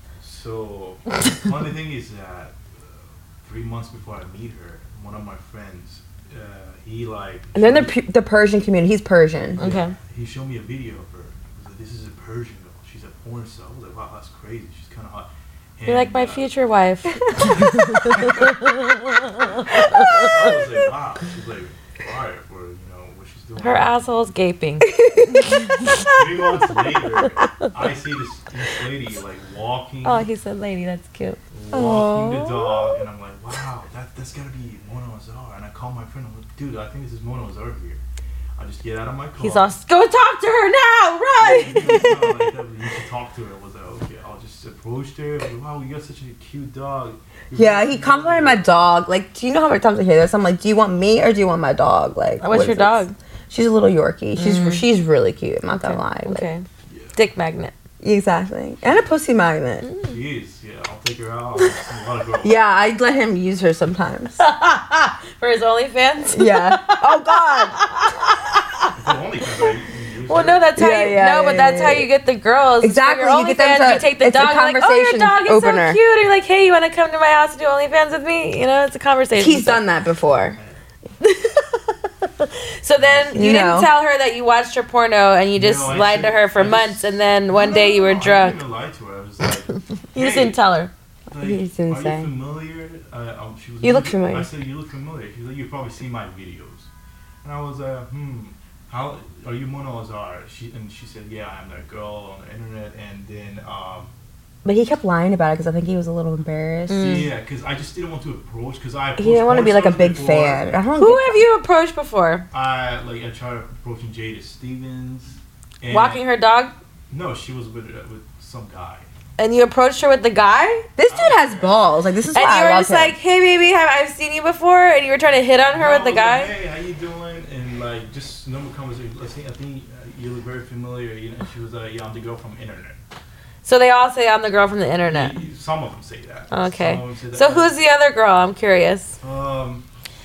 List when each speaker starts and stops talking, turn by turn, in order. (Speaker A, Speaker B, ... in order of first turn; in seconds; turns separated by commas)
Speaker A: 0.2-7.9, Speaker B: 7.5-9.6, Speaker A: 9.6-16.5, Speaker C: 9.6-10.0, Speaker C: 15.9-20.5, Speaker A: 17.4-18.7, Speaker A: 19.4-24.1, Speaker C: 23.6-26.0, Speaker B: 24.8-26.0, Speaker A: 25.8-30.2, Speaker C: 30.0-33.0, Speaker A: 31.5-38.0, Speaker A: 38.6-39.7, Speaker C: 39.4-42.3, Speaker A: 41.4-48.6, Speaker B: 47.5-56.5, Speaker C: 52.4-53.1, Speaker C: 54.4-54.9, Speaker C: 55.7-56.6, Speaker A: 56.9-57.2, Speaker C: 57.1-57.7, Speaker B: 58.0-59.9, Speaker C: 59.8-60.1, Speaker A: 60.0-62.6, Speaker B: 62.4-64.4, Speaker C: 64.4-68.4, Speaker B: 66.3-67.8, Speaker A: 69.0-70.7, Speaker C: 70.3-79.8, Speaker B: 70.8-72.1, Speaker B: 72.8-76.0, Speaker B: 79.4-80.6, Speaker C: 81.2-88.6, Speaker A: 83.0-83.4, Speaker B: 83.3-83.9, Speaker A: 85.6-90.6, Speaker C: 90.1-90.9, Speaker A: 91.3-96.9, Speaker B: 91.4-92.3, Speaker B: 93.8-94.5, Speaker A: 97.4-104.1, Speaker B: 104.7-107.2, Speaker C: 106.9-107.3, Speaker A: 106.9-110.8, Speaker B: 109.2-111.4, Speaker C: 111.0-112.5, Speaker A: 112.5-116.2, Speaker C: 115.9-116.7, Speaker A: 117.1-119.1, Speaker C: 119.4-120.9, Speaker B: 121.0-123.2, Speaker A: 121.1-121.8, Speaker C: 122.3-126.5, Speaker A: 125.7-133.0, Speaker C: 133.6-135.4, Speaker A: 135.1-137.7, Speaker C: 136.5-139.2, Speaker A: 139.2-139.8